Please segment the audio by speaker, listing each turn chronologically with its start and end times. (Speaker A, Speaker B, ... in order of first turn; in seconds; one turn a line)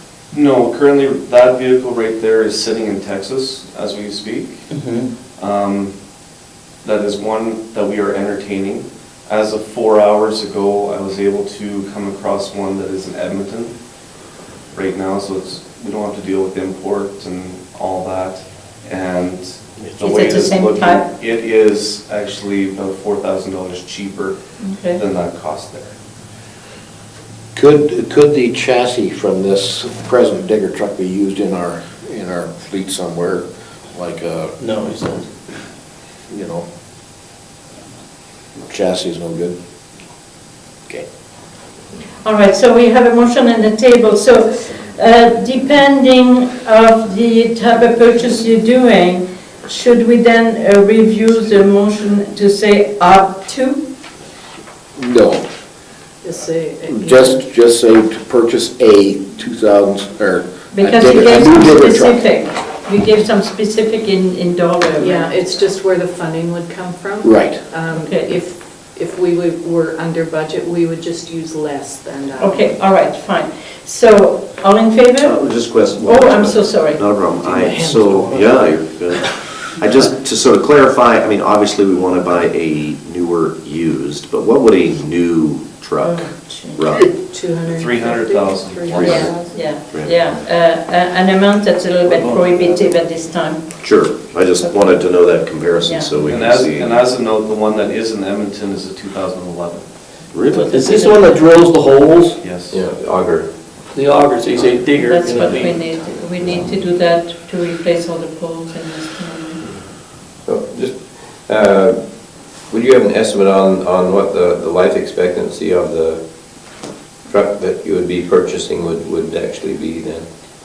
Speaker A: 0.3-4.6
Speaker B: 4.7-5.1
Speaker A: 5.4-6.0
Speaker A: 6.8-13.8
Speaker A: 14.7-24.4
Speaker C: 20.0-21.1
Speaker C: 24.6-25.0
Speaker A: 24.9-25.9
Speaker D: 27.5-34.6
Speaker B: 34.6-35.3
Speaker D: 36.3-36.6
Speaker D: 38.7-39.5
Speaker C: 42.2-53.8
Speaker D: 55.0-55.5
Speaker E: 56.2-57.4
Speaker D: 56.9-62.3
Speaker C: 60.7-65.4
Speaker E: 65.0-72.7
Speaker D: 67.2-67.6
Speaker C: 67.9-68.4
Speaker C: 72.4-75.4
Speaker F: 75.2-87.1
Speaker C: 76.0-77.1
Speaker C: 86.0-87.0
Speaker E: 86.9-89.7
Speaker A: 87.7-89.0
Speaker F: 88.9-90.4
Speaker C: 89.0-93.8
Speaker A: 92.0-93.0
Speaker F: 93.8-97.0
Speaker C: 94.6-95.1
Speaker C: 95.8-96.2
Speaker A: 96.2-99.9
Speaker F: 100.3-100.7
Speaker C: 100.5-101.5
Speaker B: 100.7-102.4
Speaker A: 102.4-102.8
Speaker G: 102.7-103.5
Speaker B: 103.9-106.7
Speaker C: 105.0-109.6
Speaker G: 110.5-112.0
Speaker G: 112.7-116.2
Speaker G: 117.3-120.3